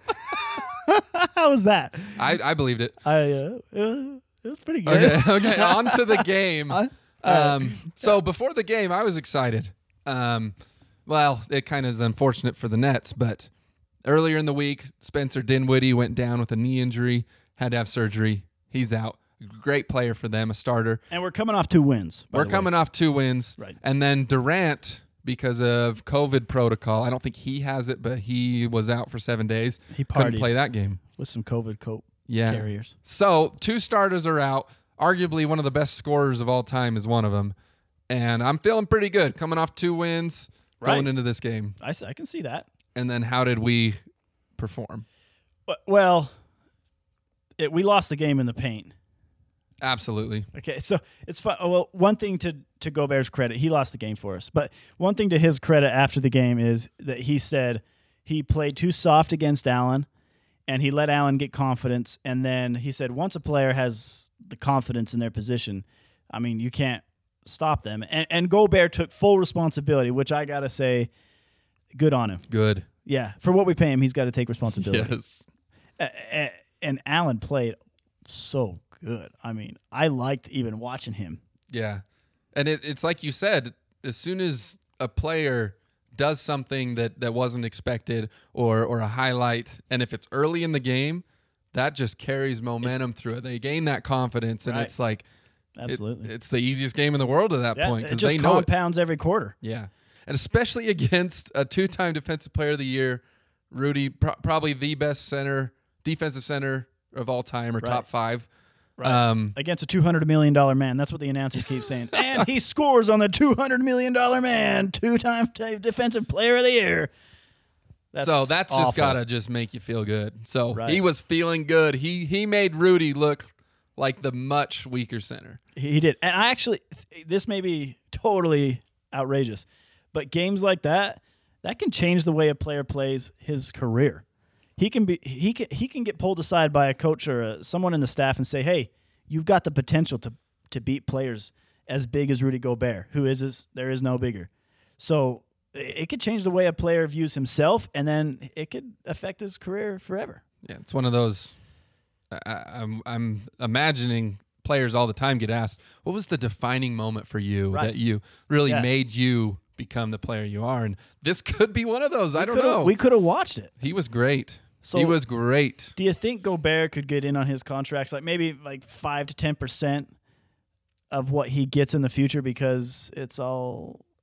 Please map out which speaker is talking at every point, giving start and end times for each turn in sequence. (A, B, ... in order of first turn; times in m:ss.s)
0:00.3-0:02.4 A
0:02.2-0:03.0 B
0:03.0-0:08.1 A
0:04.9-0:10.6 B
0:11.1-0:13.5 B
0:14.0-0:21.0 B
0:21.1-0:22.7 A
0:22.3-0:31.0 B
0:29.9-0:30.5 A
0:31.1-0:33.0 A
0:32.3-0:37.6 B
0:38.1-0:41.8 B
0:40.8-0:41.1 A
0:41.8-0:42.7 A
0:43.0-0:44.0 B
0:44.6-0:45.0 B
0:45.7-0:46.3 A
0:47.6-0:48.9 A
0:49.8-0:50.5 B
0:50.5-1:00.1 A
1:00.7-1:11.1 A
1:11.9-1:12.4 A
1:12.5-1:12.9 B
1:13.0-1:15.2 A
1:14.8-1:15.5 B
1:16.0-1:21.4 A
1:21.7-1:35.2 B
1:34.7-1:34.9 A
1:35.8-1:36.3 A
1:35.9-1:38.7 B
1:37.8-1:39.6 A
1:39.6-1:48.5 B
1:47.8-1:48.0 A
1:49.0-1:57.1 A
1:49.0-1:49.6 B
1:58.1-1:59.2 A
1:58.2-2:05.6 B
2:00.7-2:01.0 A
2:05.8-2:14.2 A
2:14.8-2:30.4 A
2:30.6-2:31.5 B
2:32.3-2:43.0 B
2:42.4-2:43.8 A
2:43.8-2:46.0 B
2:44.8-2:45.2 A
2:46.0-2:50.1 A
2:51.1-2:54.0 A